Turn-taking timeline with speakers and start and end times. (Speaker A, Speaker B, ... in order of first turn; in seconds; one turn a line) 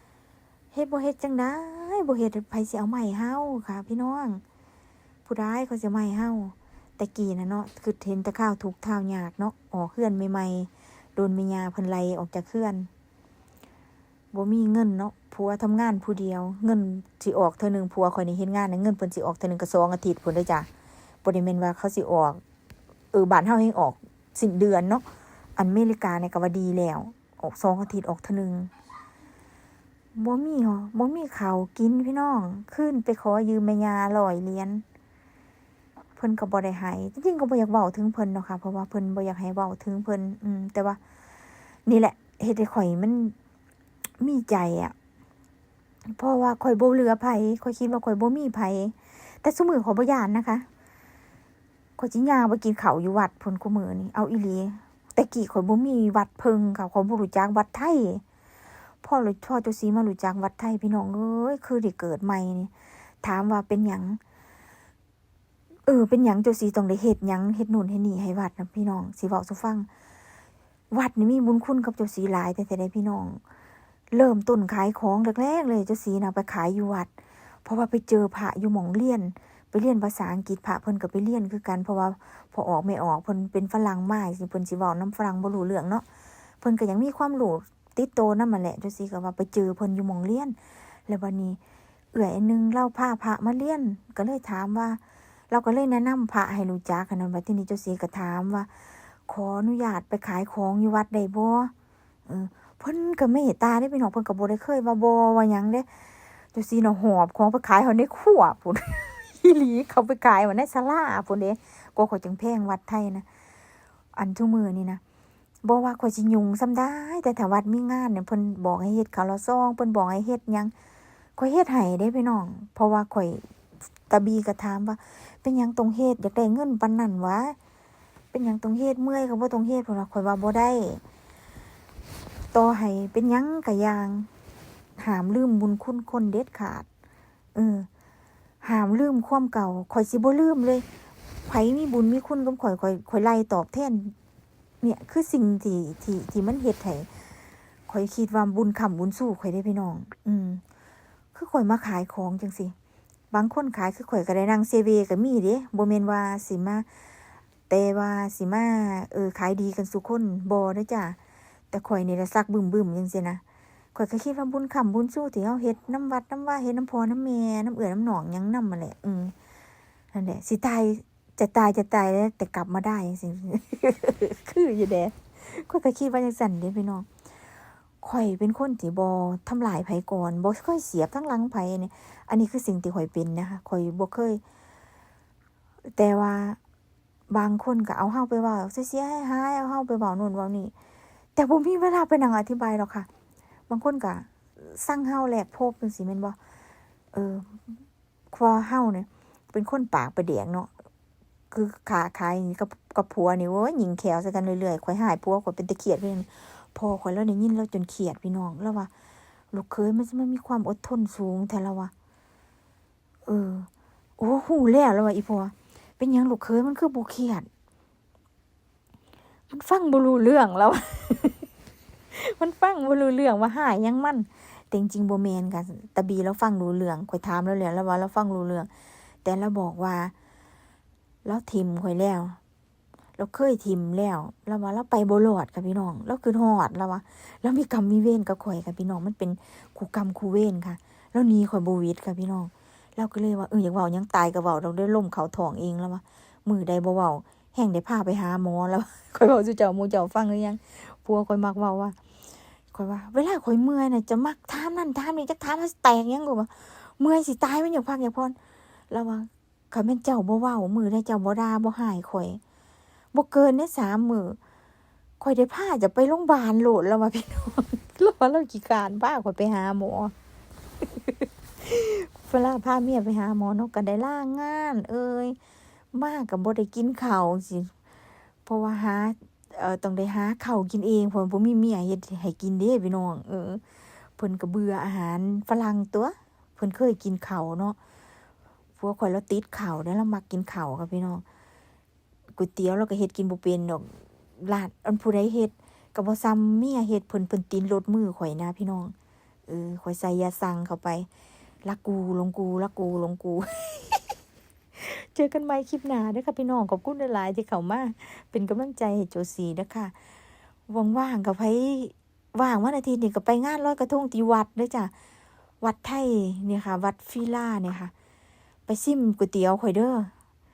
Speaker A: 0.7-4.4
Speaker A: 5.2-12.9
Speaker A: 14.3-20.7
Speaker A: 21.2-22.4
Speaker A: 23.1-25.0
Speaker A: 25.6-28.7
Speaker A: 30.1-34.8
Speaker A: 36.1-41.0
Speaker A: 41.9-43.3
Speaker A: 44.2-44.9
Speaker A: 46.1-50.6
Speaker A: 52.0-58.2
Speaker A: 59.0-62.7
Speaker A: 63.2-64.2
Speaker A: 65.8-69.9
Speaker A: 70.9-73.4
Speaker A: 74.1-77.1
Speaker A: 77.6-86.0
Speaker A: 86.6-91.6
Speaker A: 92.1-101.7
Speaker A: 102.3-105.9
Speaker A: 106.5-113.2
Speaker A: 114.1-115.0
Speaker A: 115.6-120.7
Speaker A: 121.4-123.5
Speaker A: 124.1-127.5
Speaker A: 128.3-131.0
Speaker A: 132.5-134.3
Speaker A: 135.0-136.8
Speaker A: 137.5-137.9
Speaker A: 138.6-140.8
Speaker A: 141.4-144.1
Speaker A: 144.8-147.1
Speaker A: 147.9-150.6
Speaker A: 151.3-152.7
Speaker A: 153.3-156.8
Speaker A: 157.7-161.2
Speaker A: 161.7-163.4
Speaker A: 163.9-169.3
Speaker A: 170.1-177.1
Speaker A: 178.0-184.4
Speaker A: 185.9-186.6
Speaker A: 187.3-190.7
Speaker A: 191.3-193.1
Speaker A: 193.7-196.4
Speaker A: 197.1-197.8
Speaker A: 198.3-200.7
Speaker A: 201.5-208.9
Speaker A: 209.5-211.9
Speaker A: 213.2-213.7
Speaker A: 214.2-217.5
Speaker A: 219.5-221.4
Speaker A: 222.1-228.7
Speaker A: 229.2-230.1
Speaker A: 231.2-232.4
Speaker A: 233.2-251.9
Speaker A: 252.7-258.4
Speaker A: 258.9-262.4
Speaker A: 263.1-264.4
Speaker A: 265.2-270.1
Speaker A: 270.8-275.4
Speaker A: 275.9-277.7
Speaker A: 278.4-283.6
Speaker A: 284.2-287.8
Speaker A: 288.8-291.2
Speaker A: 292.4-298.9
Speaker A: 299.5-301.1
Speaker A: 301.6-304.1
Speaker A: 304.8-309.9
Speaker A: 310.7-314.9
Speaker A: 315.6-317.9
Speaker A: 318.7-320.1